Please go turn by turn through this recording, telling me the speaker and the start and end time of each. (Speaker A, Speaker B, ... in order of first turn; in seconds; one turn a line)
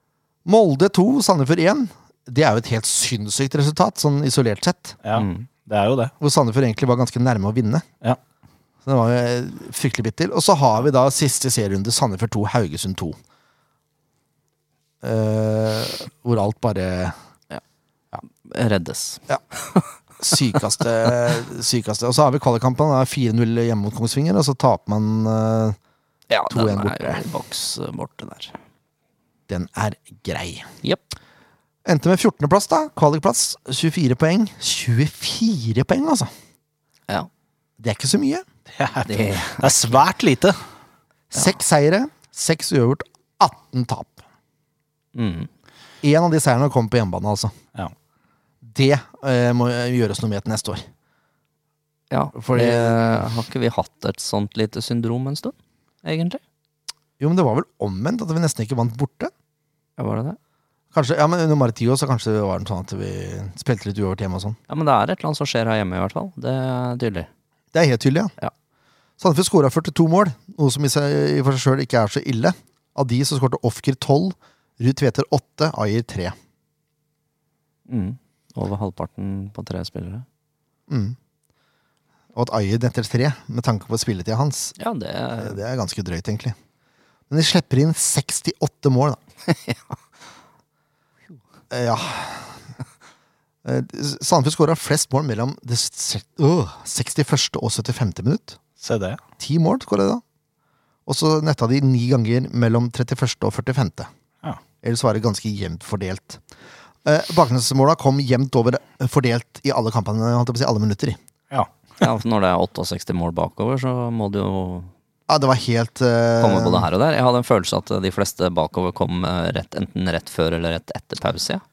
Speaker A: 0.4-5.0
Speaker B: 5.0-6.1
Speaker C: 5.1-5.5
Speaker A: 6.2-7.8
Speaker A: 8.8-13.2
Speaker A: 15.0-17.1
Speaker C: 18.4-19.9
Speaker A: 20.2-25.8
Speaker C: 26.3-28.5
Speaker A: 26.5-27.2
Speaker A: 29.5-30.7
Speaker A: 31.8-36.3
Speaker A: 37.8-38.4
Speaker B: 38.7-40.5
Speaker C: 39.0-40.0
Speaker A: 41.3-44.2
Speaker C: 45.1-45.5
Speaker A: 46.0-47.5
Speaker A: 48.6-50.8
Speaker C: 52.1-56.4
Speaker A: 52.3-53.0
Speaker A: 57.2-59.3
Speaker C: 60.0-60.4
Speaker A: 60.9-64.6
Speaker C: 64.7-67.3
Speaker A: 67.7-68.3
Speaker A: 69.2-76.3
Speaker C: 77.9-80.2
Speaker A: 80.9-81.2
Speaker A: 82.3-84.8
Speaker C: 84.8-85.6
Speaker A: 85.4-86.5
Speaker A: 87.3-89.2
Speaker C: 89.5-90.0
Speaker A: 91.7-92.6
Speaker A: 93.6-98.6
Speaker B: 98.8-99.2
Speaker A: 99.4-100.2
Speaker A: 101.0-104.1
Speaker A: 104.8-106.4
Speaker A: 107.0-111.2
Speaker C: 112.0-114.9
Speaker A: 115.3-116.9
Speaker C: 116.4-121.6